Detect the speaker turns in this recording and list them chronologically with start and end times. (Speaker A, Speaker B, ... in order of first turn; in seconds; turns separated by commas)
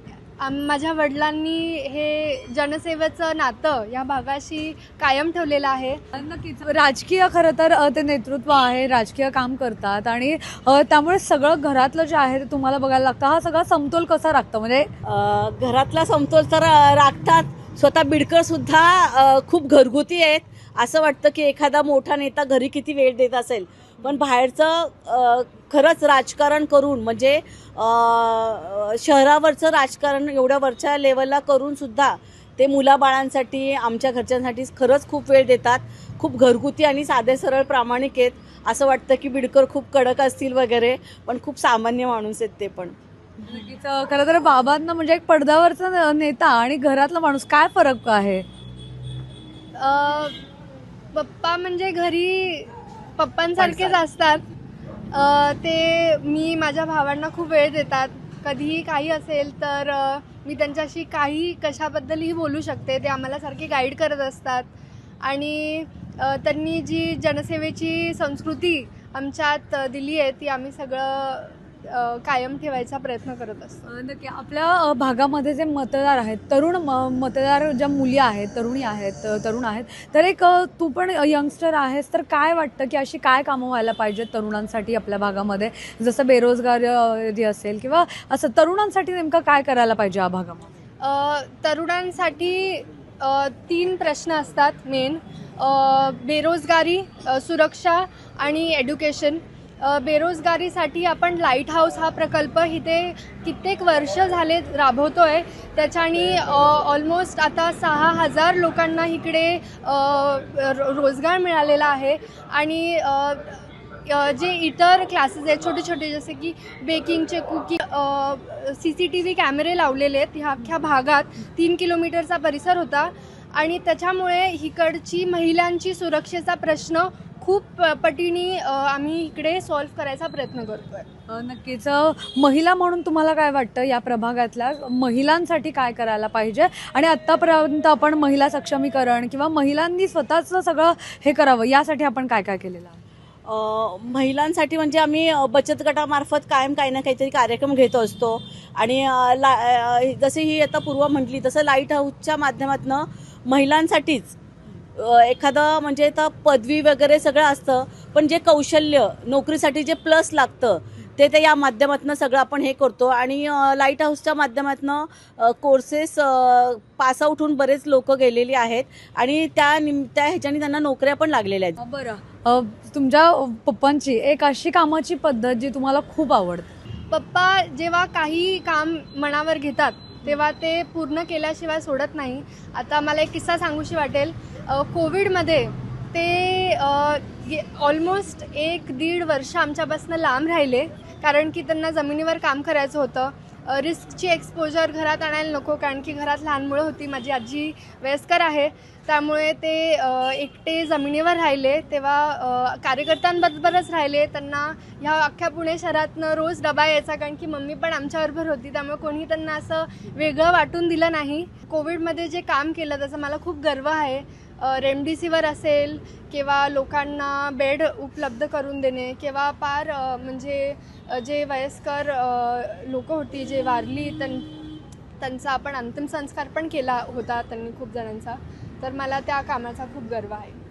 Speaker A: 0.4-6.0, Speaker B: 6.1-14.9, Speaker C: 15.0-42.9, Speaker B: 43.4-48.5, Speaker A: 49.8-50.4, Speaker A: 51.1-54.4, Speaker A: 55.1-64.7, Speaker A: 65.2-73.8, Speaker B: 73.9-90.7, Speaker A: 91.0-131.1, Speaker B: 131.3-143.0, Speaker C: 143.5-154.3, Speaker C: 155.0-171.8, Speaker B: 171.8-176.7, Speaker A: 177.1-224.6, Speaker A: 225.2-230.6